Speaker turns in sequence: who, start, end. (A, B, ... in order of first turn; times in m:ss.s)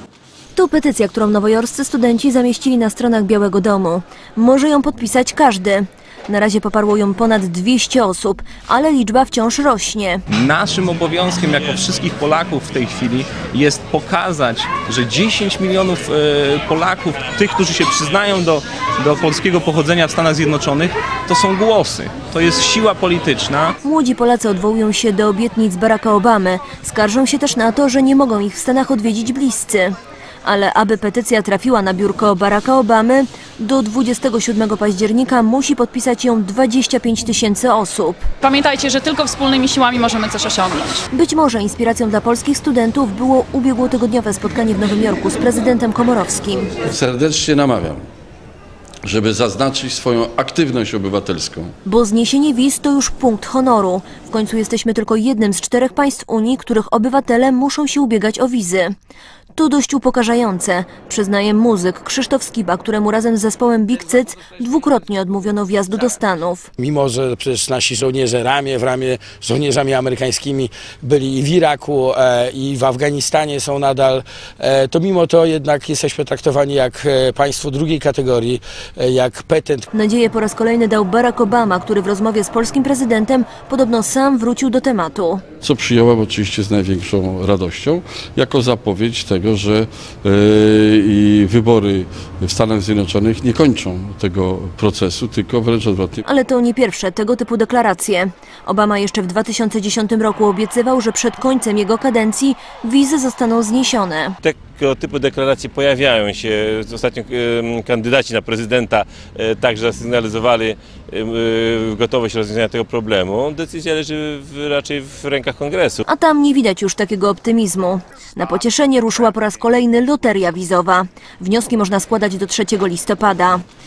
0:00.6-0:10.2 A
0:10.3-0:23.8 B
0:23.8-0:38.3 A
0:38.4-0:41.0 C
0:41.1-0:46.7 A
0:46.8-0:48.0 D
0:49.0-0:51.7 D
0:51.9-0:58.9 A
0:59.6-1:06.7 A
1:06.8-1:19.9 E
1:19.9-1:25.4 A
1:25.6-1:36.2 D
1:36.2-1:44.4 A
1:44.4-1:56.0 F
1:56.1-2:03.6 A